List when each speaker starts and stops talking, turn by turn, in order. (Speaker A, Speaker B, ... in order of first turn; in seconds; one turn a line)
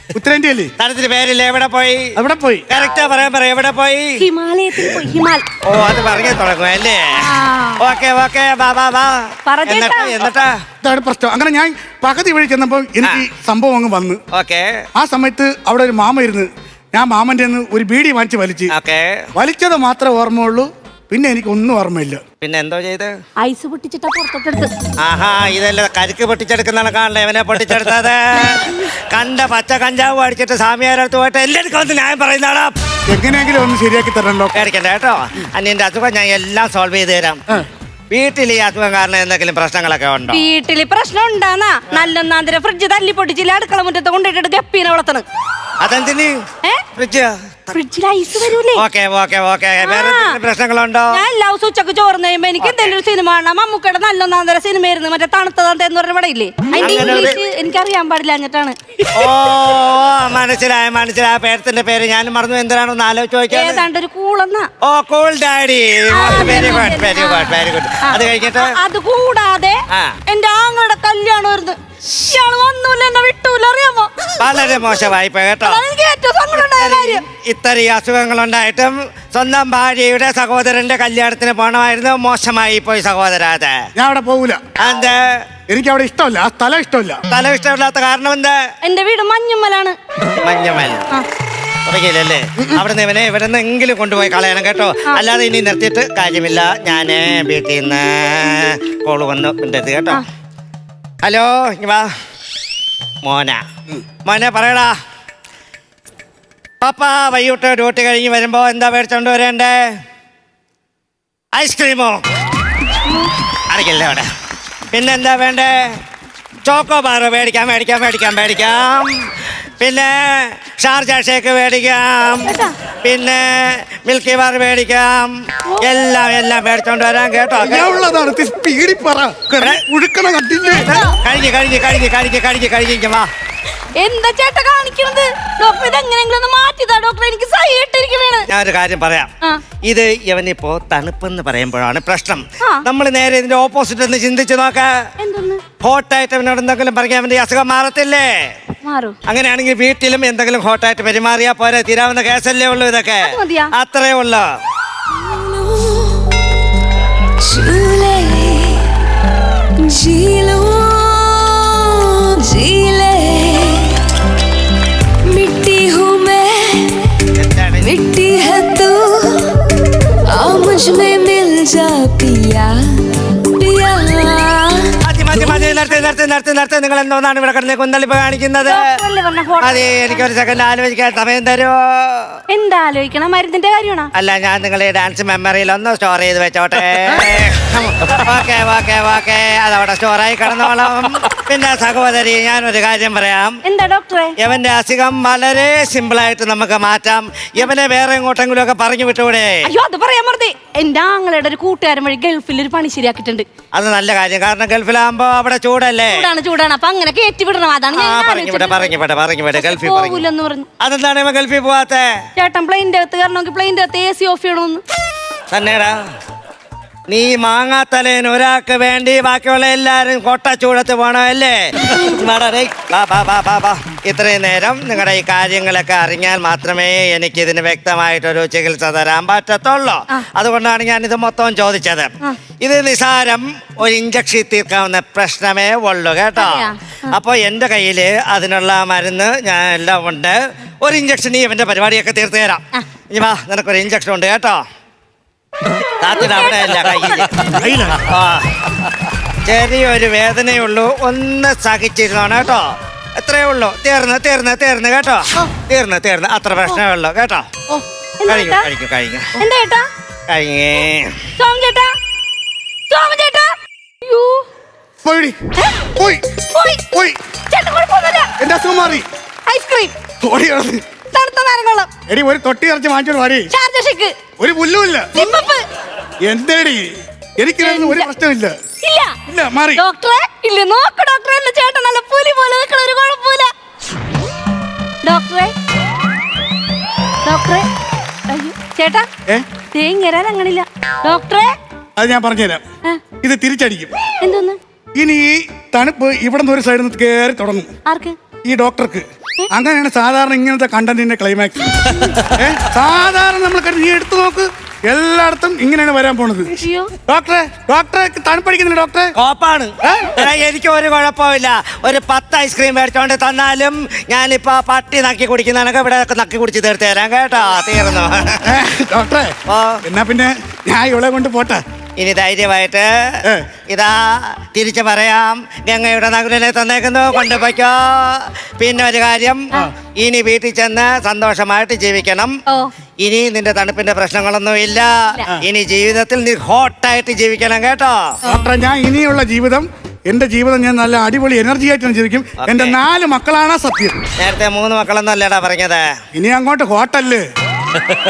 Speaker A: 0.1-0.7
Speaker B: 0.8-2.1
Speaker A: 2.1-2.7
Speaker B: 2.7-4.2
Speaker C: 4.2-5.4
Speaker B: 5.7-7.2
Speaker C: 7.2-7.8
Speaker B: 7.8-10.6
Speaker C: 9.5-10.2
Speaker A: 10.8-14.2
Speaker B: 14.3-14.7
Speaker A: 14.9-18.7
Speaker B: 18.7-19.2
Speaker A: 19.4-22.2
Speaker B: 22.4-23.1
Speaker C: 23.4-24.7
Speaker B: 25.0-32.7
Speaker A: 33.1-34.6
Speaker B: 34.5-37.4
Speaker B: 38.1-40.4
Speaker C: 40.3-45.2
Speaker B: 45.8-46.4
Speaker B: 47.0-47.8
Speaker C: 47.7-48.8
Speaker B: 48.8-51.2
Speaker C: 49.8-50.4
Speaker C: 51.1-58.8
Speaker B: 52.6-53.0
Speaker B: 56.8-57.4
Speaker B: 59.1-63.8
Speaker C: 63.5-64.7
Speaker B: 64.8-68.7
Speaker C: 66.1-74.3
Speaker B: 69.9-70.2
Speaker B: 74.4-75.8
Speaker C: 75.6-77.2
Speaker B: 76.5-83.8
Speaker A: 84.0-84.6
Speaker B: 84.8-85.2
Speaker A: 85.7-87.2
Speaker B: 87.3-88.6
Speaker C: 88.8-90.0
Speaker B: 90.4-91.1
Speaker B: 91.9-100.2
Speaker B: 101.2-102.1
Speaker B: 103.2-103.6
Speaker B: 104.2-104.9
Speaker B: 106.8-109.8
Speaker B: 111.5-112.2
Speaker B: 113.7-114.3
Speaker B: 114.9-115.8
Speaker B: 116.7-119.1
Speaker B: 119.8-127.9
Speaker C: 122.5-122.7
Speaker A: 127.6-130.9
Speaker B: 130.8-133.3
Speaker C: 130.8-131.1
Speaker C: 134.0-138.5
Speaker B: 138.5-139.3
Speaker B: 139.8-144.9
Speaker C: 145.2-145.6
Speaker B: 145.8-148.3
Speaker C: 148.8-149.2
Speaker B: 149.3-154.5
Speaker C: 153.2-153.7
Speaker D: 155.1-156.4
Speaker D: 157.4-158.9
Speaker D: 159.8-164.0
Speaker D: 165.3-167.2
Speaker B: 167.4-168.0
Speaker D: 167.8-169.6
Speaker D: 170.3-175.8
Speaker B: 175.0-178.8
Speaker C: 178.7-180.2
Speaker B: 179.6-182.4
Speaker C: 182.5-184.1
Speaker B: 184.2-193.6
Speaker C: 193.7-194.4
Speaker B: 194.4-199.7
Speaker C: 199.6-203.4
Speaker B: 203.7-206.3
Speaker C: 206.1-208.9
Speaker B: 207.9-210.2
Speaker C: 209.6-210.7
Speaker B: 210.8-212.1
Speaker C: 212.4-214.8
Speaker B: 215.5-215.9
Speaker B: 217.1-244.6
Speaker C: 236.4-237.2
Speaker B: 246.0-247.4
Speaker C: 246.2-246.5
Speaker A: 247.5-248.0
Speaker B: 248.0-248.5
Speaker B: 249.4-257.5
Speaker C: 258.2-258.7
Speaker B: 258.3-259.3
Speaker C: 259.4-259.9
Speaker B: 260.3-261.1
Speaker C: 261.4-261.9
Speaker C: 262.9-263.5
Speaker C: 264.1-264.4
Speaker A: 265.0-265.4
Speaker C: 265.6-265.8
Speaker A: 265.9-266.2
Speaker C: 266.5-266.8
Speaker A: 266.9-267.2
Speaker C: 267.5-268.3
Speaker A: 268.4-269.1
Speaker C: 269.5-269.9
Speaker A: 270.2-270.8
Speaker C: 271.1-271.9
Speaker A: 272.1-273.5
Speaker C: 273.5-274.1
Speaker A: 274.4-275.1
Speaker C: 275.1-275.6
Speaker A: 276.2-278.6
Speaker C: 277.6-278.1
Speaker C: 278.8-279.2
Speaker A: 279.3-279.8
Speaker C: 279.8-283.5
Speaker C: 285.0-285.5
Speaker C: 287.2-287.7
Speaker C: 288.3-289.1
Speaker C: 289.7-291.6
Speaker A: 292.0-292.6
Speaker A: 293.2-293.9
Speaker C: 294.2-294.6
Speaker A: 295.0-297.7
Speaker C: 297.9-298.2
Speaker A: 298.4-306.5
Speaker C: 306.5-306.9
Speaker A: 307.1-309.1
Speaker B: 309.2-318.5
Speaker A: 309.8-310.2
Speaker A: 318.4-321.6
Speaker B: 319.5-319.8
Speaker B: 322.0-322.9
Speaker B: 323.7-332.4
Speaker C: 332.5-332.7
Speaker B: 333.0-338.1
Speaker A: 338.2-344.0
Speaker B: 342.4-342.8
Speaker B: 344.2-345.9
Speaker A: 346.1-347.2